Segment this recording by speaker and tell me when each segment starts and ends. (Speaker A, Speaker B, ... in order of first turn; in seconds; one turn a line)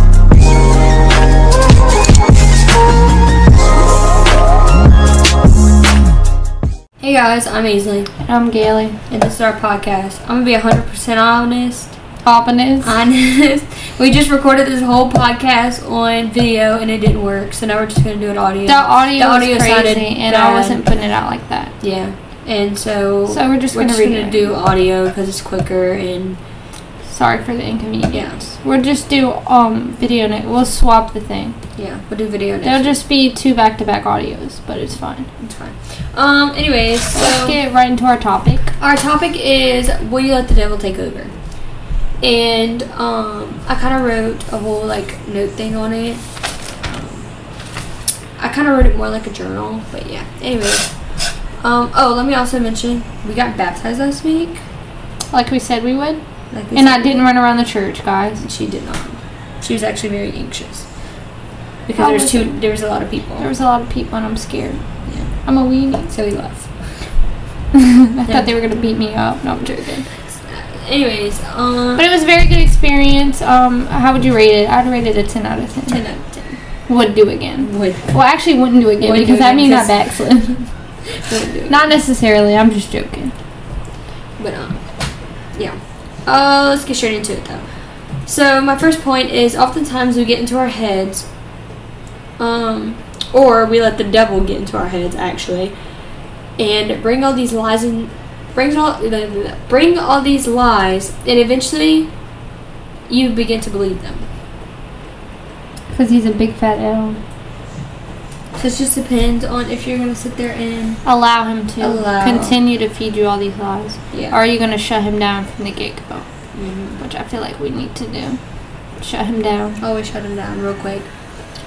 Speaker A: 7.0-8.1
Speaker B: 8.2-9.0
Speaker A: 9.1-12.0
Speaker B: 12.2-13.0
Speaker A: 12.8-20.8
Speaker B: 18.7-21.7
Speaker A: 21.8-26.4
Speaker B: 23.3-24.5
Speaker B: 27.1-31.6
Speaker A: 28.1-28.5
Speaker A: 31.8-32.9
Speaker B: 32.6-35.3
Speaker A: 35.4-37.6
Speaker B: 37.1-38.7
Speaker A: 38.8-41.3
Speaker A: 42.2-46.2
Speaker A: 46.8-47.3
Speaker A: 48.4-50.9
Speaker A: 51.6-54.6
Speaker B: 55.3-56.2
Speaker A: 56.5-57.2
Speaker B: 56.8-58.4
Speaker A: 58.4-60.9
Speaker A: 61.9-63.5
Speaker B: 62.0-62.6
Speaker B: 63.4-64.8
Speaker B: 65.4-66.1
Speaker A: 66.1-66.7
Speaker B: 67.7-70.1
Speaker A: 70.5-72.1
Speaker B: 72.0-76.0
Speaker A: 75.9-76.6
Speaker B: 76.9-80.7
Speaker A: 77.6-78.1
Speaker A: 79.0-79.9
Speaker A: 81.2-81.8
Speaker B: 81.7-83.3
Speaker A: 84.4-84.8
Speaker A: 85.6-87.7
Speaker A: 88.2-91.3
Speaker A: 92.4-95.8
Speaker A: 96.6-102.1
Speaker A: 103.1-104.3
Speaker B: 105.9-107.2
Speaker A: 108.5-111.0
Speaker B: 111.0-116.3
Speaker A: 111.8-112.6
Speaker A: 116.5-117.0
Speaker B: 117.0-118.4
Speaker B: 119.0-119.8
Speaker A: 119.8-121.1